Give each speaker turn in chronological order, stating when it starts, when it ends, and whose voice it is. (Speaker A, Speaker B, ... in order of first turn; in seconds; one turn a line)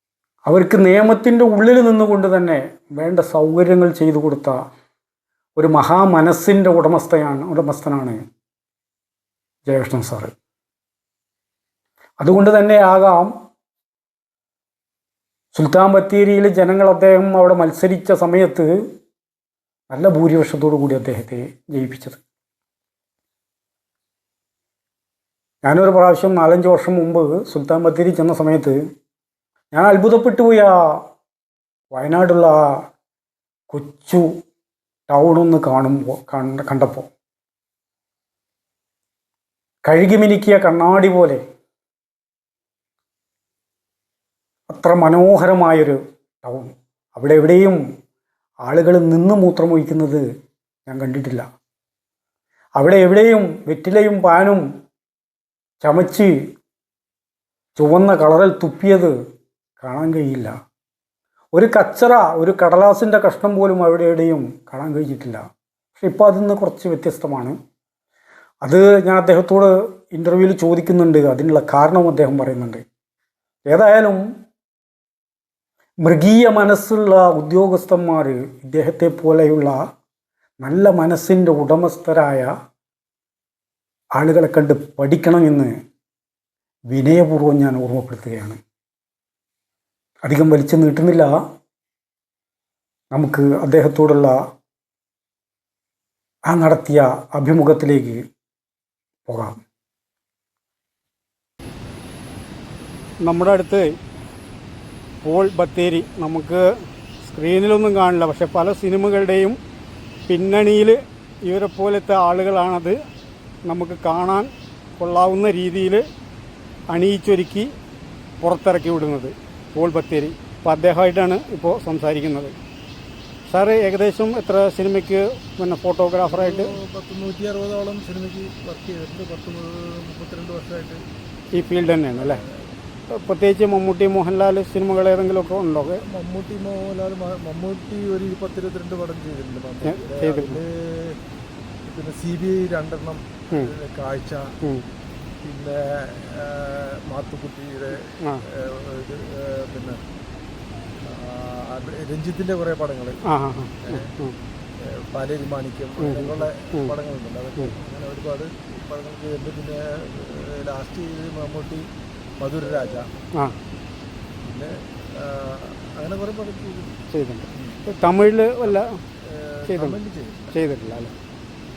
Speaker A: 0.5-4.6
Speaker A: 5.6-8.2
Speaker A: 9.7-10.3
Speaker A: 12.2-13.3
Speaker A: 15.5-18.8
Speaker A: 19.9-22.2
Speaker A: 25.6-28.8
Speaker A: 29.7-31.0
Speaker A: 31.9-32.7
Speaker A: 33.7-34.3
Speaker A: 35.1-37.1
Speaker A: 39.9-41.4
Speaker A: 44.7-47.8
Speaker A: 48.6-50.2
Speaker A: 50.9-51.5
Speaker A: 52.8-54.7
Speaker A: 55.8-56.4
Speaker A: 57.8-59.1
Speaker A: 59.8-60.5
Speaker A: 61.5-65.4
Speaker A: 66.0-67.6
Speaker A: 68.6-72.8
Speaker A: 73.7-74.3
Speaker A: 76.0-79.8
Speaker A: 80.6-82.5
Speaker A: 84.2-85.7
Speaker A: 86.9-88.6
Speaker A: 90.2-91.3
Speaker A: 93.1-94.4
Speaker A: 96.5-98.2
Speaker A: 99.3-99.6
Speaker A: 103.2-103.9
Speaker A: 105.2-106.6
Speaker A: 107.2-109.6
Speaker A: 110.3-113.0
Speaker A: 113.7-116.0
Speaker A: 116.9-117.7
Speaker A: 118.4-122.5
Speaker A: 123.5-126.8
Speaker B: 126.2-131.0
Speaker A: 131.5-132.4
Speaker B: 132.1-132.8
Speaker A: 133.1-136.0
Speaker B: 136.0-141.2
Speaker A: 139.8-140.6
Speaker B: 141.9-144.6
Speaker B: 145.4-150.0
Speaker B: 151.0-153.2
Speaker A: 153.2-154.3
Speaker B: 153.8-154.1
Speaker B: 154.8-161.9
Speaker A: 156.0-156.9
Speaker B: 162.4-163.1
Speaker B: 164.4-166.9
Speaker A: 167.1-169.0
Speaker B: 167.5-167.8
Speaker B: 168.6-170.6
Speaker A: 169.7-170.0
Speaker A: 170.5-171.1